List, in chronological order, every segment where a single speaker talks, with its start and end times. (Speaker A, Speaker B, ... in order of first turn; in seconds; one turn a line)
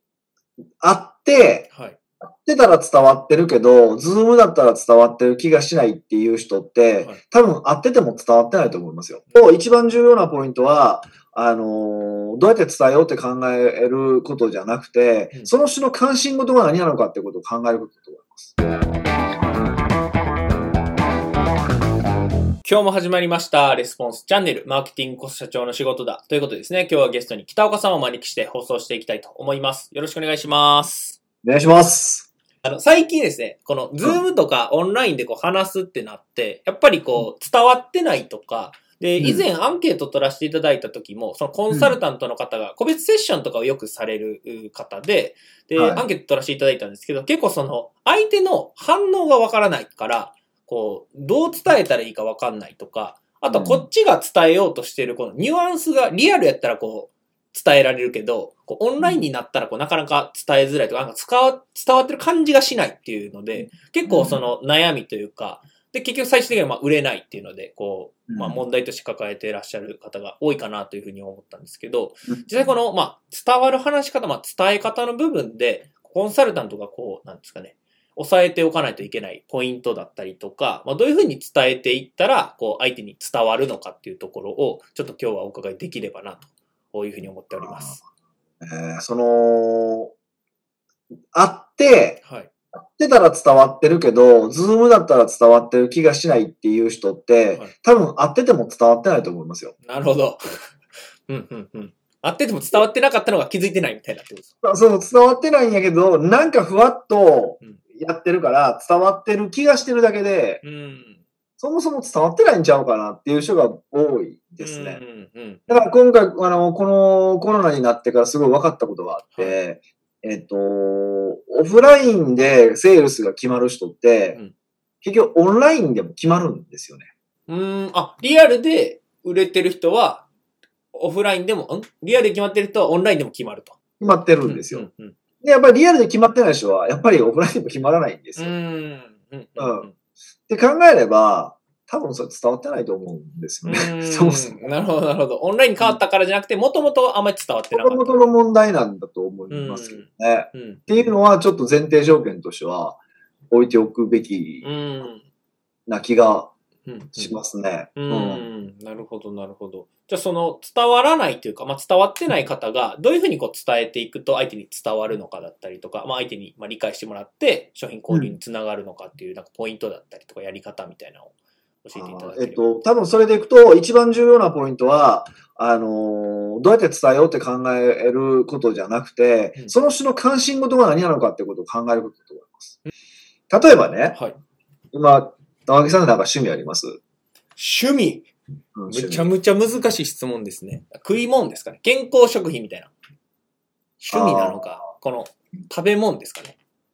Speaker A: 0.8-1.7
Speaker B: 1.7-2.0
Speaker A: 2.2-18.6
Speaker B: 22.6-31.2
Speaker A: 31.4-32.3
Speaker B: 32.6-88.0
Speaker A: 39.2-39.5
Speaker A: 41.7-42.0
Speaker A: 45.8-46.0
Speaker A: 53.5-53.9
Speaker A: 64.1-64.4
Speaker A: 68.3-68.6
Speaker A: 87.6-88.0
Speaker A: 88.6-90.1
Speaker A: 91.3-92.2
Speaker B: 92.2-92.5
Speaker A: 92.8-99.8
Speaker B: 99.8-100.4
Speaker B: 101.3-104.5
Speaker A: 104.6-110.6
Speaker B: 110.6-111.2
Speaker A: 111.6-115.0
Speaker B: 114.6-115.9
Speaker A: 115.7-124.4
Speaker B: 119.3-119.6
Speaker A: 125.0-127.1
Speaker B: 127.5-130.3
Speaker B: 130.9-133.8
Speaker A: 134.0-134.9
Speaker B: 134.4-135.2
Speaker A: 135.4-138.5
Speaker B: 138.4-139.9
Speaker A: 139.6-139.9
Speaker A: 140.5-144.7
Speaker B: 143.7-148.2
Speaker A: 147.7-153.0
Speaker B: 149.5-151.1
Speaker A: 153.5-154.7
Speaker B: 154.6-155.2
Speaker A: 155.9-156.5
Speaker B: 156.9-157.4
Speaker A: 157.2-158.4
Speaker B: 158.0-172.6
Speaker A: 171.9-182.8
Speaker A: 183.5-184.2
Speaker A: 184.9-187.0
Speaker B: 187.6-188.3
Speaker A: 188.8-189.3
Speaker B: 188.9-192.9
Speaker B: 194.0-196.6
Speaker A: 194.1-194.8